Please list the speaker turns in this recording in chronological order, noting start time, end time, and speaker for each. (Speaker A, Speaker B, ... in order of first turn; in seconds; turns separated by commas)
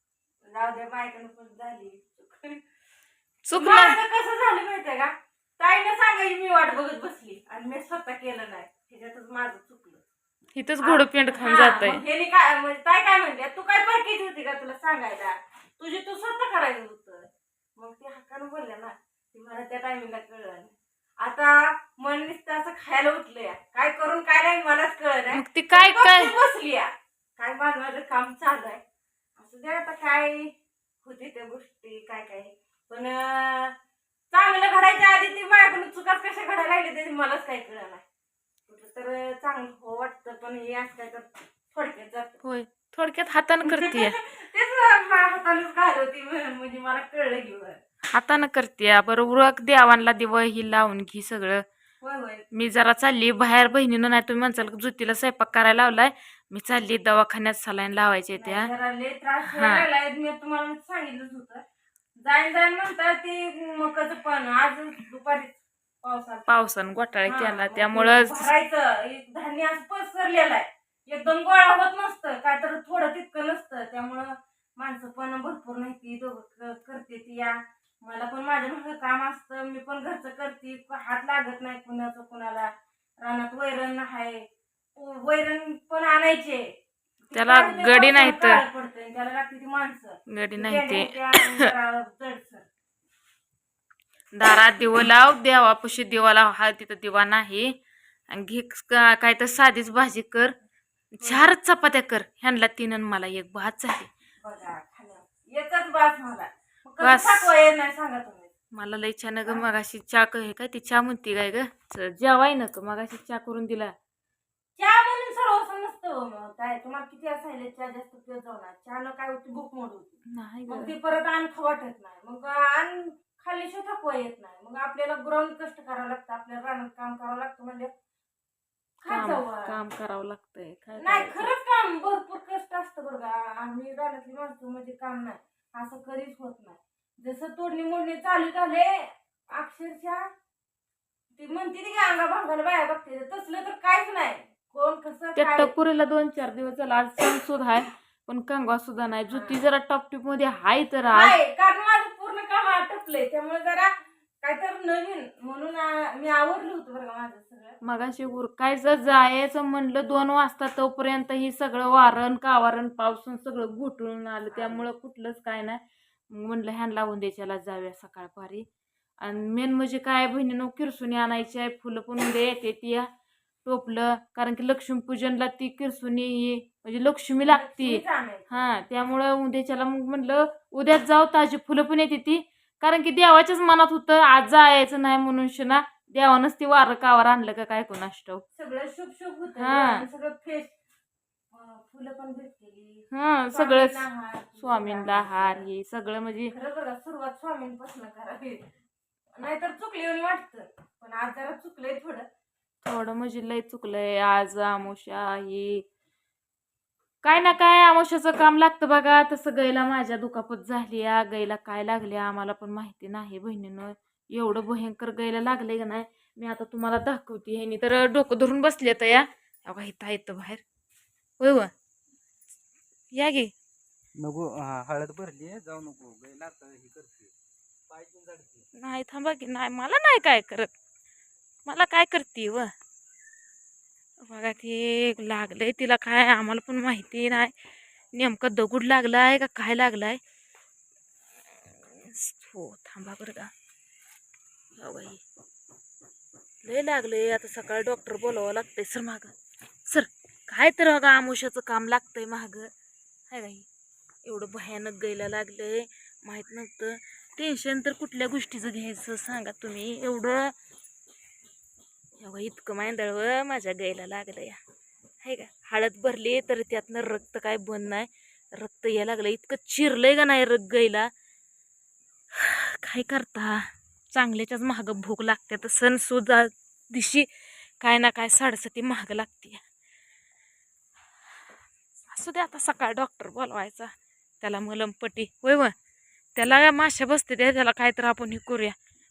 Speaker A: 0.5-2.6, Speaker B: 3.5-4.0, Speaker A: 3.6-10.0, Speaker B: 10.6-12.0, Speaker A: 10.8-28.8, Speaker B: 25.3-26.3, Speaker A: 29.4-30.5, Speaker A: 31.0-33.7, Speaker A: 34.3-38.0, Speaker A: 38.7-42.4, Speaker B: 42.4-44.2, Speaker A: 43.7-47.8, Speaker B: 48.1-51.6, Speaker A: 52.0-52.5, Speaker B: 52.5-58.7, Speaker A: 58.4-61.6, Speaker B: 59.4-59.9, Speaker A: 62.2-66.5, Speaker B: 66.5-68.5, Speaker A: 67.3-82.7, Speaker A: 83.2-84.4, Speaker A: 85.0-86.6, Speaker A: 87.3-92.7, Speaker B: 87.3-88.6, Speaker B: 90.3-91.7, Speaker B: 94.3-97.7, Speaker B: 98.3-100.5, Speaker B: 101.1-104.1, Speaker A: 101.2-101.5, Speaker A: 104.4-108.5, Speaker B: 107.0-107.5, Speaker B: 108.7-113.9, Speaker A: 114.8-120.2, Speaker B: 120.3-120.9, Speaker A: 120.7-127.9, Speaker B: 129.0-131.5, Speaker A: 129.0-129.8, Speaker A: 131.0-140.2, Speaker A: 141.3-145.7, Speaker B: 145.4-151.4, Speaker A: 149.3-149.6, Speaker A: 151.1-153.9, Speaker A: 154.4-157.8, Speaker B: 157.8-165.8, Speaker A: 164.5-164.9, Speaker B: 166.3-168.7, Speaker B: 169.2-173.1, Speaker B: 173.7-188.4, Speaker A: 177.4-178.7, Speaker A: 188.6-190.7, Speaker B: 189.6-190.0, Speaker A: 191.5-195.7, Speaker B: 193.1-194.1, Speaker B: 194.6-196.5, Speaker A: 196.5-198.6, Speaker A: 199.4-202.3, Speaker B: 202.8-205.8, Speaker B: 207.2-220.6, Speaker B: 221.4-221.7, Speaker B: 223.1-223.5, Speaker C: 224.2-227.3, Speaker C: 227.9-228.7, Speaker B: 228.8-230.7, Speaker B: 231.7-232.7, Speaker B: 234.2-237.5, Speaker B: 238.1-240.2, Speaker B: 241.8-243.5, Speaker B: 244.8-245.2, Speaker B: 246.6-249.3, Speaker B: 249.9-252.7, Speaker B: 253.3-253.7, Speaker B: 254.2-260.5, Speaker B: 262.2-264.6, Speaker B: 265.2-271.1, Speaker B: 272.4-277.3, Speaker B: 277.8-279.6, Speaker B: 282.1-285.7, Speaker B: 286.4-288.7